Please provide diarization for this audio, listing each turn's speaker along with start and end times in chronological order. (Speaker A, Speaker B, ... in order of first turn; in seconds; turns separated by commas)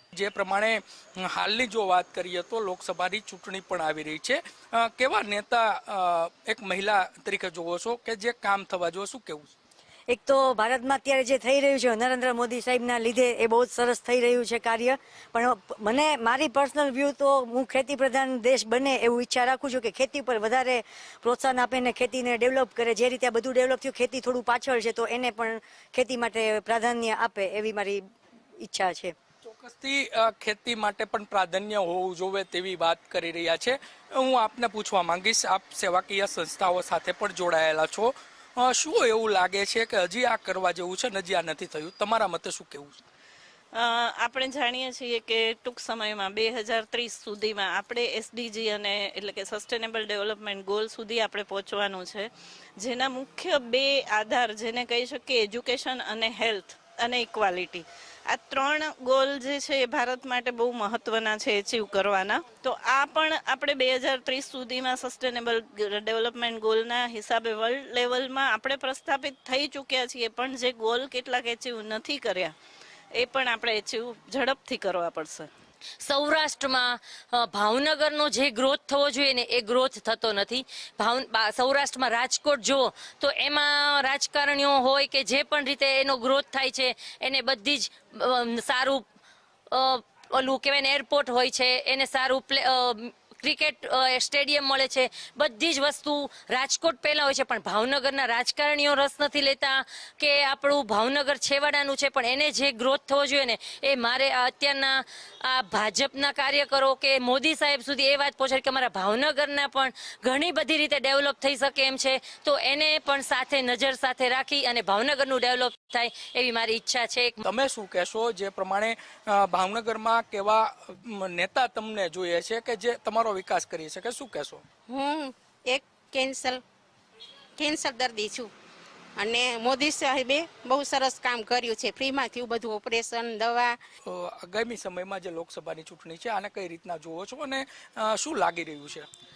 Speaker A: 0.1-9.5, Speaker B: 10.1-28.0, Speaker B: 28.6-29.1, Speaker A: 29.4-43.0, Speaker C: 43.8-52.3, Speaker C: 52.8-72.5, Speaker C: 73.2-75.5, Speaker D: 76.0-89.0, Speaker D: 89.7-117.4, Speaker A: 117.4-124.6, Speaker E: 124.9-126.6, Speaker E: 127.6-128.5, Speaker E: 129.2-133.8, Speaker A: 134.1-139.1